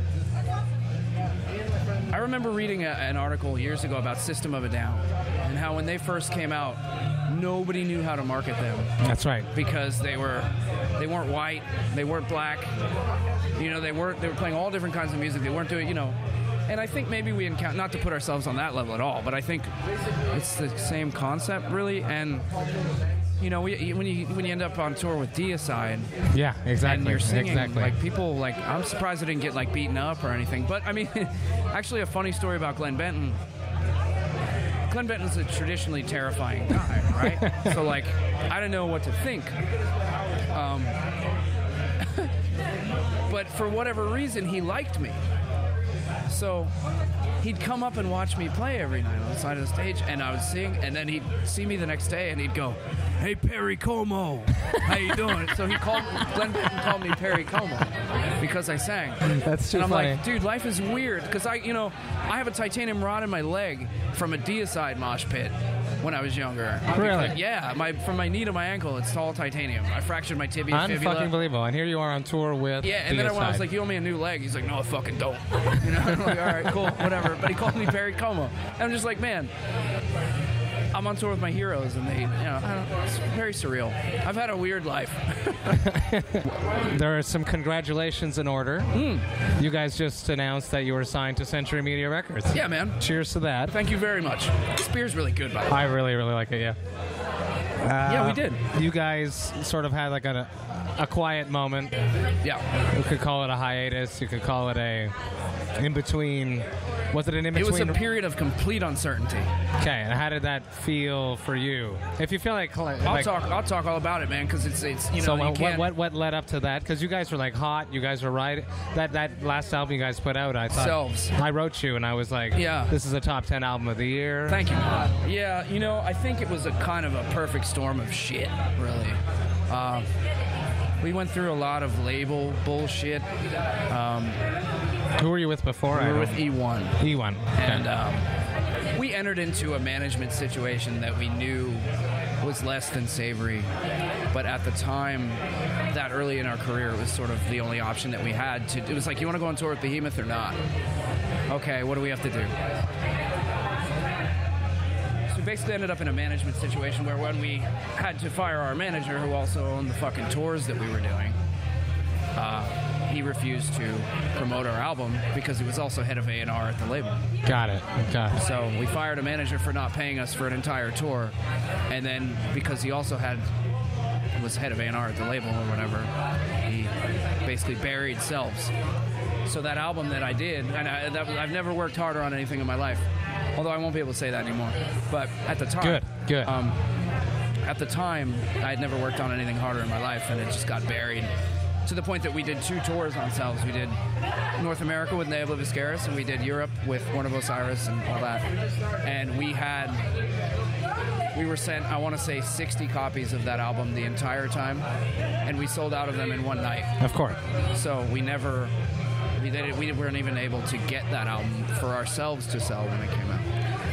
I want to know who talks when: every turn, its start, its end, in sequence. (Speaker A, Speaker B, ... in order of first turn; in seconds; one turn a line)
Speaker A: 2.1-8.9
Speaker B: 9.0-9.5
Speaker A: 9.5-12.7
Speaker A: 13.6-16.2
Speaker A: 16.7-19.7
Speaker A: 20.3-22.5
Speaker A: 23.4-26.1
Speaker B: 26.3-27.9
Speaker A: 26.8-33.4
Speaker A: 34.9-39.5
Speaker B: 37.4-37.8
Speaker A: 40.5-41.0
Speaker A: 42.0-42.3
Speaker A: 43.3-45.2
Speaker A: 46.3-46.7
Speaker A: 47.4-71.3
Speaker B: 54.6-55.6
Speaker B: 56.2-56.7
Speaker B: 59.3-60.2
Speaker B: 66.9-67.4
Speaker B: 70.7-73.6
Speaker A: 72.8-79.5
Speaker A: 80.9-85.8
Speaker B: 85.8-88.9
Speaker A: 88.9-89.3
Speaker B: 89.6-93.8
Speaker A: 92.5-93.0
Speaker A: 93.7-95.9
Speaker B: 95.7-96.8
Speaker B: 97.8-101.9
Speaker A: 98.0-98.6
Speaker B: 102.9-105.1
Speaker B: 105.8-108.0
Speaker A: 107.5-109.5
Speaker B: 109.8-113.3
Speaker A: 113.0-115.9
Speaker B: 115.2-124.6
Speaker A: 120.7-121.3
Speaker A: 122.5-122.9
Speaker A: 124.5-130.1
Speaker A: 131.0-133.3
Speaker A: 133.9-134.4
Speaker B: 135.2-136.4
Speaker A: 135.9-138.3
Speaker B: 137.0-137.8
Speaker A: 138.9-141.9
Speaker A: 142.4-143.7
Speaker A: 144.3-150.6
Speaker A: 151.5-152.6
Speaker A: 155.3-161.4
Speaker A: 162.4-167.2
Speaker B: 167.5-168.4
Speaker A: 168.3-171.3
Speaker A: 171.9-173.5
Speaker A: 174.4-176.1
Speaker A: 176.6-178.7
Speaker A: 179.5-186.8
Speaker B: 185.8-186.6
Speaker A: 187.7-191.3
Speaker A: 191.8-193.9
Speaker A: 194.6-198.5
Speaker A: 199.0-200.0
Speaker A: 201.3-204.8
Speaker A: 205.4-207.0
Speaker B: 207.0-207.4
Speaker A: 207.7-208.7
Speaker A: 209.4-213.5